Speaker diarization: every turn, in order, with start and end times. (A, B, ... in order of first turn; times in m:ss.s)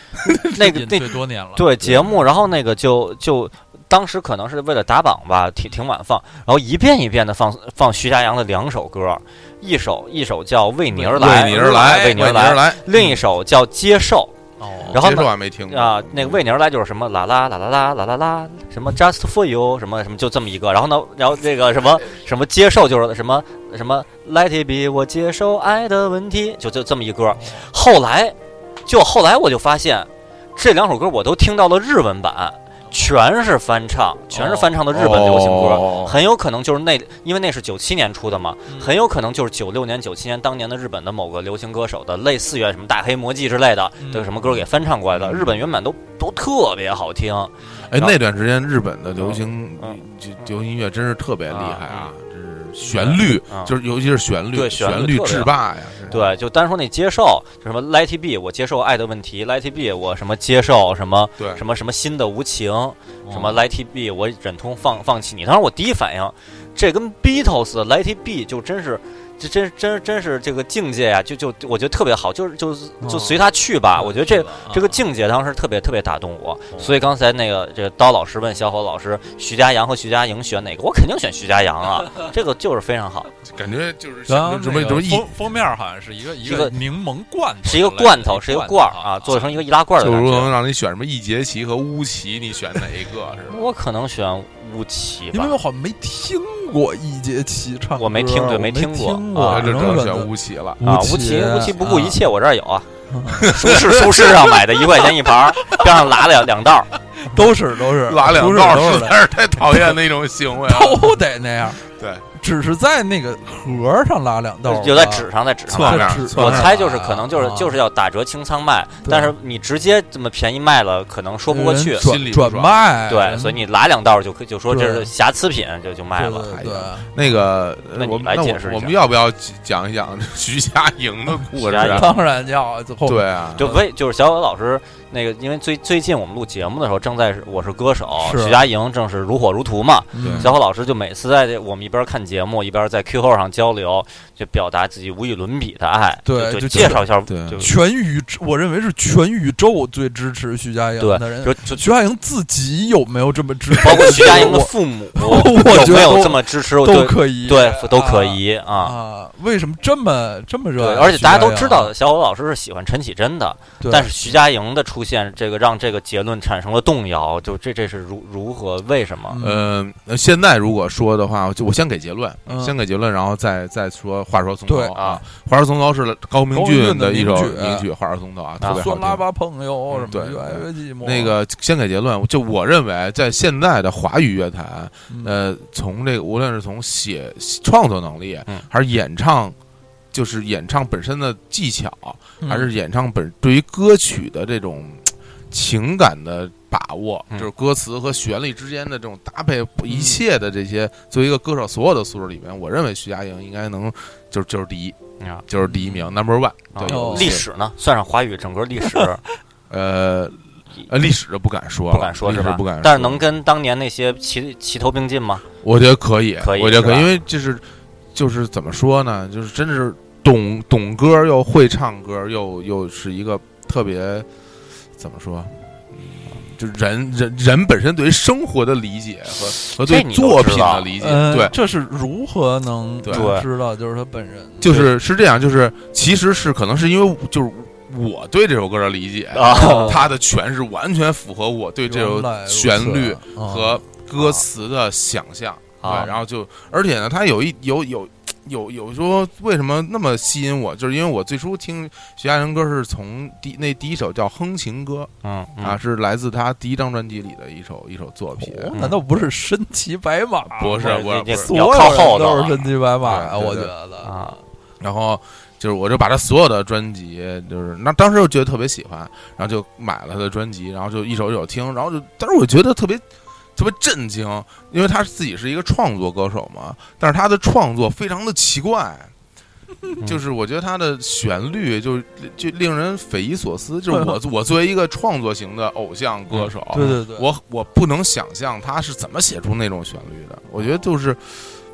0:00.2-0:00.5 A
0:00.5-0:14.3 B
0:00.5-0:02.0 C
0:01.8-0:02.1 A
0:10.9-0:12.4 C
0:11.1-0:13.0 A
0:12.9-0:13.2 C
0:14.6-0:15.0 C
0:14.9-0:16.4 A
0:14.9-0:48.2 B
0:27.4-0:27.6 C
0:34.3-0:34.7 C
0:34.9-0:36.2 A
0:38.7-0:38.9 C
0:44.0-0:44.3 C
0:44.4-0:45.6 A
0:47.9-0:56.2 A
0:49.2-0:50.0 B
0:51.5-0:52.1 B
0:52.8-0:53.2 C
0:53.0-0:53.7 B
0:54.5-0:55.5 B
0:56.1-1:23.3 B
1:01.4-1:01.6 A
1:03.2-1:03.6 C
1:13.0-1:13.4 C
1:13.9-1:15.0 C
1:23.4-1:25.3 A
1:24.3-1:29.6 C
1:26.4-1:26.7 B
1:27.6-1:30.5 B
1:30.0-1:33.7 A
1:33.5-1:35.6 B
1:35.3-1:42.2 C
1:38.0-1:40.0 B
1:39.4-1:40.8 A
1:40.8-1:42.9 B
1:43.1-1:43.5 C
1:43.4-1:44.8 A
1:43.5-1:46.9 B
1:47.2-1:49.2 C
1:48.0-1:51.2 A
1:50.7-1:51.8 C
1:51.8-1:52.2 A
1:52.3-1:57.8 C
1:54.6-2:02.1 B
1:55.7-1:56.7 A
1:59.0-1:59.3 C
2:01.5-2:03.6 C
2:02.0-2:02.8 A
2:03.1-2:06.6 B
2:04.7-2:05.1 C
2:06.2-2:07.1 C
2:06.6-2:12.1 A
2:07.9-2:08.9 B
2:11.6-2:12.2 B
2:11.8-2:13.8 C
2:13.0-2:13.7 A
2:13.6-2:27.7 B
2:18.2-2:18.6 C
2:20.1-2:20.5 C
2:20.2-2:20.5 A
2:26.2-2:41.9 C
2:26.7-2:27.6 A
2:31.0-2:31.8 B
2:33.8-2:39.0 B
2:40.8-2:49.4 B
2:43.8-2:44.1 C
2:49.3-2:49.6 C
2:49.4-2:59.2 A
2:52.5-2:52.8 C
2:54.7-2:55.0 C
2:55.0-2:55.2 B
2:56.5-2:57.9 C
2:58.7-3:01.4 C
3:00.1-3:09.6 A
3:05.1-3:05.4 C
3:10.1-3:27.4 A
3:12.4-3:12.7 C
3:19.9-3:20.2 C
3:25.2-3:25.4 B
3:26.7-3:29.2 B
3:26.8-3:27.4 C
3:29.7-3:33.2 A
3:31.9-3:35.4 B
3:35.6-3:44.3 A
3:36.4-3:37.1 B
3:45.0-3:51.5 A
3:49.7-3:50.9 B
3:51.0-3:54.9 C
3:53.0-3:53.3 A
3:53.1-3:53.5 B
3:54.6-4:18.7 A
3:59.3-4:00.1 B
3:59.6-4:00.0 C
4:01.8-4:03.8 C
4:04.1-4:04.4 B
4:05.8-4:06.1 B
4:05.8-4:06.2 C
4:15.2-4:15.8 B
4:18.4-4:24.4 C
4:18.7-4:19.0 B
4:20.6-4:22.4 A
4:20.8-4:22.6 B
4:23.0-4:23.7 A
4:24.0-4:24.4 B
4:24.8-4:33.0 A
4:33.6-4:39.1 A
4:40.0-4:51.6 A
4:43.9-4:44.1 C
4:46.7-4:47.3 C